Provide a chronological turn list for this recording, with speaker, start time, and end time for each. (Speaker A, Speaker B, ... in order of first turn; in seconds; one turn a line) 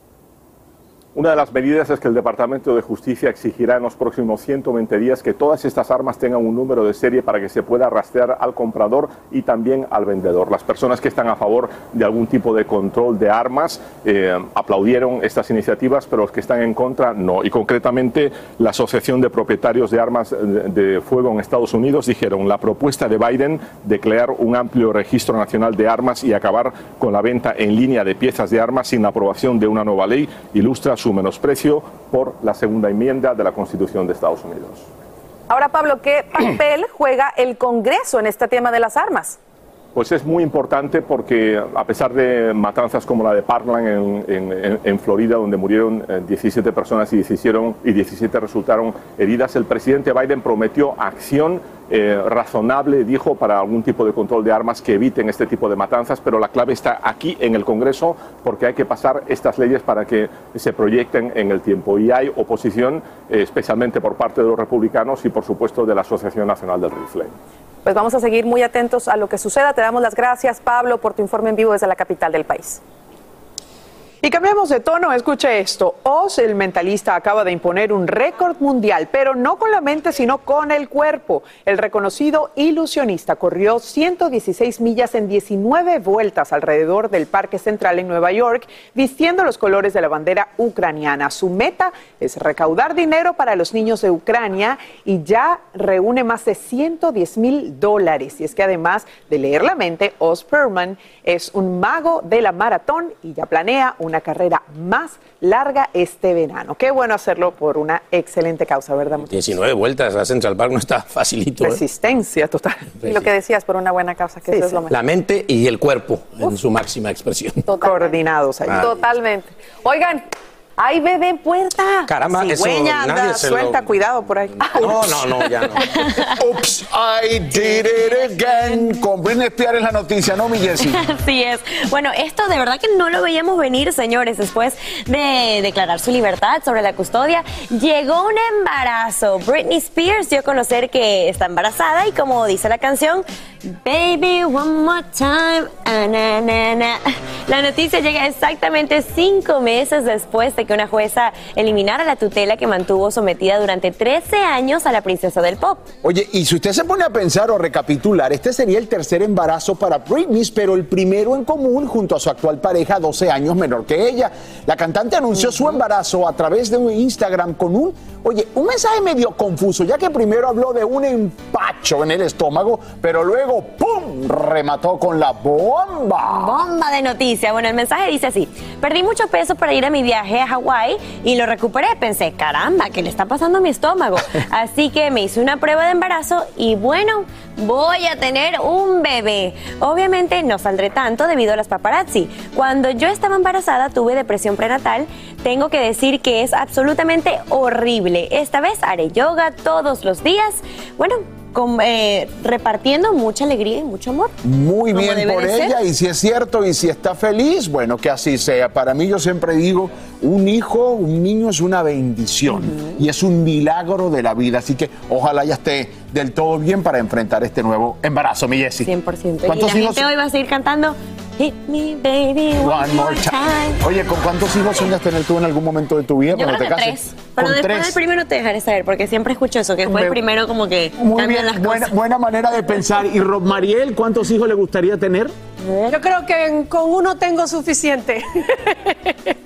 Speaker A: 1.1-34.9
Speaker B: 35.5-39.4
Speaker A: 39.9-67.3
Speaker B: 67.8-72.8
Speaker C: 74.2-109.3
Speaker D: 109.2-111.8
Speaker C: 111.6-113.0
Speaker B: 113.0-114.9
Speaker C: 114.5-114.9
Speaker D: 114.9-117.6
Speaker B: 117.7-120.2
Speaker C: 117.8-118.9
Speaker B: 120.8-122.1
Speaker D: 122.1-123.9
Speaker C: 122.2-125.5
Speaker D: 124.8-125.8
Speaker E: 126.4-131.0
Speaker F: 130.9-143.2
Speaker F: 143.8-155.9
Speaker E: 156.0-176.6
Speaker F: 176.3-204.3
Speaker E: 204.4-218.9
Speaker F: 204.9-205.8
Speaker F: 218.8-223.8
Speaker E: 219.4-220.1
Speaker E: 222.6-228.0
Speaker F: 226.3-231.9
Speaker E: 229.9-230.2
Speaker E: 231.0-235.3
Speaker F: 235.6-235.9
Speaker G: 235.9-239.1